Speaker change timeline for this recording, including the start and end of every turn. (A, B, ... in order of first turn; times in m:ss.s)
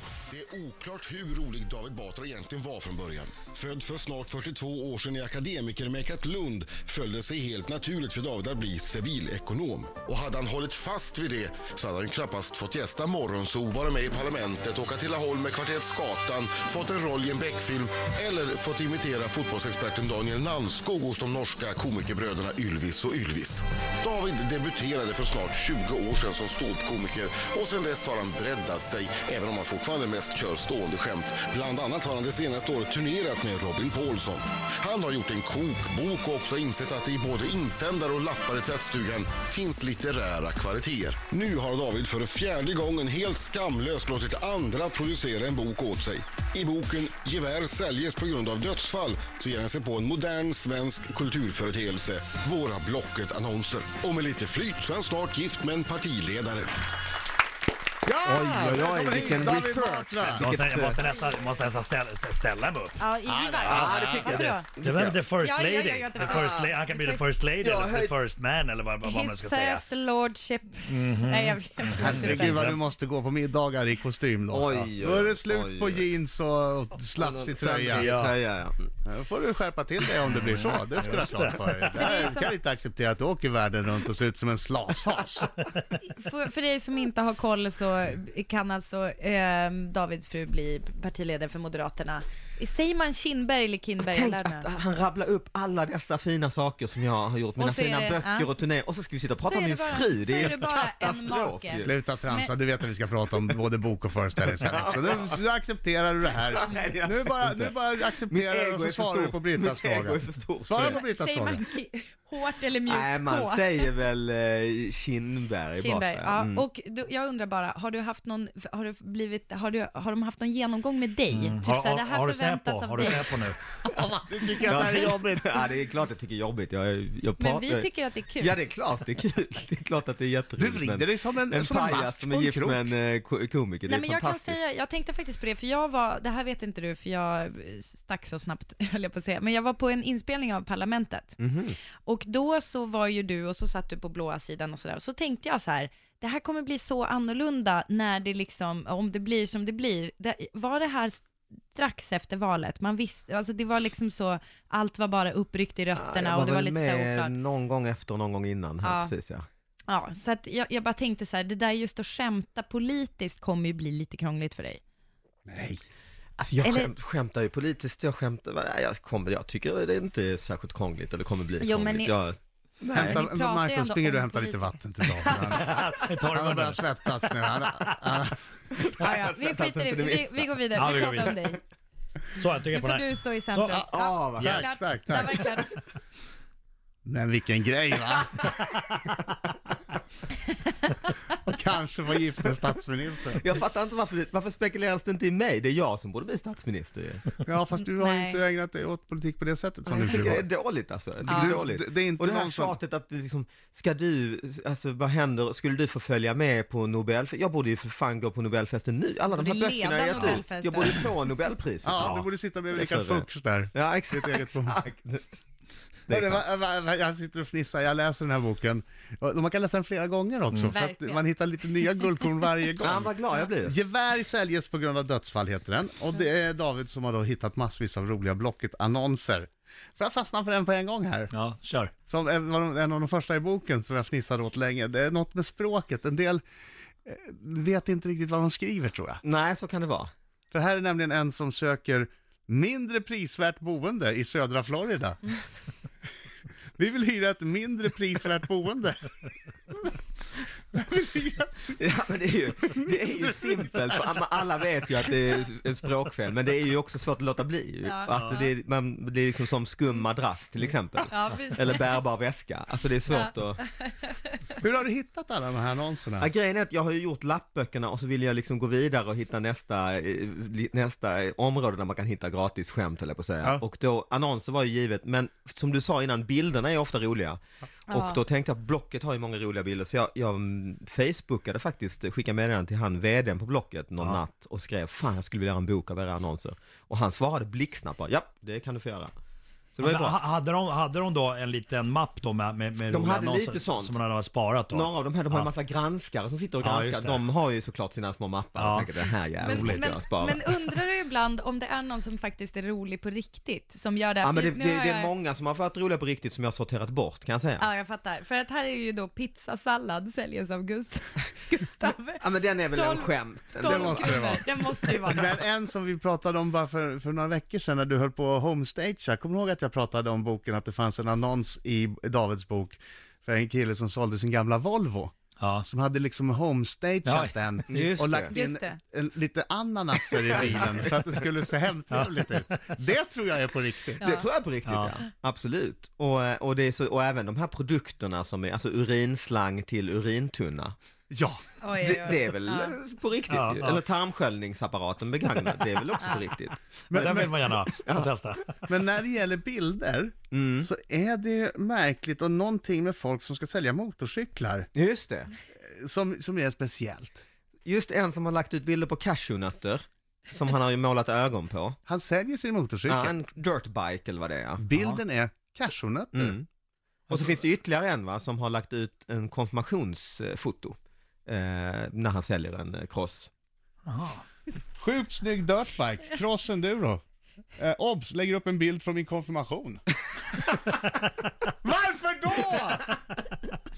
0:00.3-0:56.7 A
0:58.1-1:00.5 B
0:58.1-1:01.0 C
1:00.3-1:03.0 D
1:03.0-1:04.7 E
1:03.3-1:04.3 B
1:03.6-1:03.9 D
1:03.7-1:05.2 C
1:04.8-1:09.8 D
1:05.4-1:07.2 E
1:07.6-1:08.2 C
1:09.0-1:12.6 E
1:10.9-1:12.8 D
1:12.0-1:18.1 B
1:14.5-1:16.1 C
1:17.2-1:18.9 C
1:18.0-1:18.4 D
1:19.0-1:25.5 B
1:20.3-1:21.9 D
1:21.9-1:22.5 E
1:26.0-1:34.7 E
1:34.0-1:41.9 C
1:37.6-1:38.5 E
1:39.4-1:42.5 E
1:41.8-1:51.6 B
1:44.4-1:45.4 C
1:46.4-1:51.0 C
1:50.8-1:53.8 E
1:52.9-1:56.7 C
1:55.8-2:03.3 E
2:01.3-2:03.6 D
2:03.9-2:05.7 B
2:04.6-2:14.6 C
2:07.4-2:08.5 E
2:10.6-2:12.9 B
2:13.9-2:21.4 E
2:21.4-2:21.8 C
2:22.0-2:37.3 E
2:35.9-2:39.5 C
2:38.8-2:39.1 E
2:39.9-2:44.8 E
2:45.5-2:45.8 B
2:46.4-2:53.2 C
2:46.6-2:46.9 E
2:51.6-2:52.2 E
2:52.9-2:58.4 B
2:53.0-2:54.7 E
2:55.2-2:55.9 C
2:55.6-2:57.9 D
2:58.8-3:00.6 C
2:58.9-3:01.6 E
3:00.7-3:01.4 D
3:02.4-3:04.7 D
3:02.7-3:05.8 E
3:03.9-3:04.7 C
3:04.4-3:05.5 B
3:07.0-3:08.6 B
3:08.4-3:09.2 C
3:11.4-3:13.4 B
3:13.4-3:17.3 C
3:17.4-3:20.4 B
3:17.8-3:18.4 E
3:19.9-3:32.2 C
3:21.3-3:22.8 B
3:21.3-3:21.6 E
3:29.3-3:31.0 E
3:30.1-3:30.4 D
3:31.8-3:34.8 B
3:32.0-3:32.3 D
3:32.7-3:35.2 C
3:36.1-3:36.4 C
3:36.1-3:43.1 B
3:40.7-3:41.3 E
3:41.9-3:42.2 E
3:42.8-3:43.8 C
3:43.6-3:51.3 B
3:51.3-3:51.9 D
3:52.1-3:56.4 B
3:57.0-3:59.2 B
3:59.2-4:00.1 C
4:00.5-4:05.4 B
4:06.8-4:09.1 B
4:10.7-4:11.7 B
4:11.7-4:23.7 C
4:17.8-4:18.5 E
4:21.1-4:21.9 E
4:23.9-4:24.3 E
4:24.6-4:26.3 B
4:26.2-4:37.4 C
4:37.9-4:38.2 E
4:37.9-4:49.1 C
4:49.8-4:50.2 C
4:49.8-4:55.5 D
4:52.9-4:54.0 C
4:54.7-5:00.4 C
4:56.6-4:57.2 D
4:58.6-4:58.9 D
4:59.4-4:59.9 D
4:59.4-5:05.1 E
5:04.2-5:07.7 C
5:07.6-5:15.4 E
5:12.2-5:14.4 C
5:13.6-5:14.4 B
5:15.1-5:34.0 B
5:25.4-5:25.6 D
5:27.0-5:27.3 D
5:27.7-5:28.4 C
5:28.3-5:28.8 E
5:30.3-5:31.0 C
5:31.9-5:32.4 D
5:34.0-5:40.8 C
5:34.7-5:35.0 D
5:41.1-5:41.4 B
5:41.6-5:42.8 E
5:41.8-5:48.1 C
5:43.3-5:43.8 D
5:46.9-5:47.5 B
5:46.9-5:48.5 D
5:48.7-5:54.7 B
5:50.3-5:50.7 C
5:54.7-5:55.3 C
5:55.6-5:57.2 B
5:57.7-6:01.8 C
6:01.9-6:03.2 B
6:02.9-6:04.6 C
6:04.6-6:06.4 B
6:06.1-6:06.4 C
6:07.1-6:10.8 C
6:11.3-6:13.3 C
6:13.9-6:14.2 D
6:14.8-6:17.0 B
6:17.6-6:19.8 B
6:21.6-6:22.9 B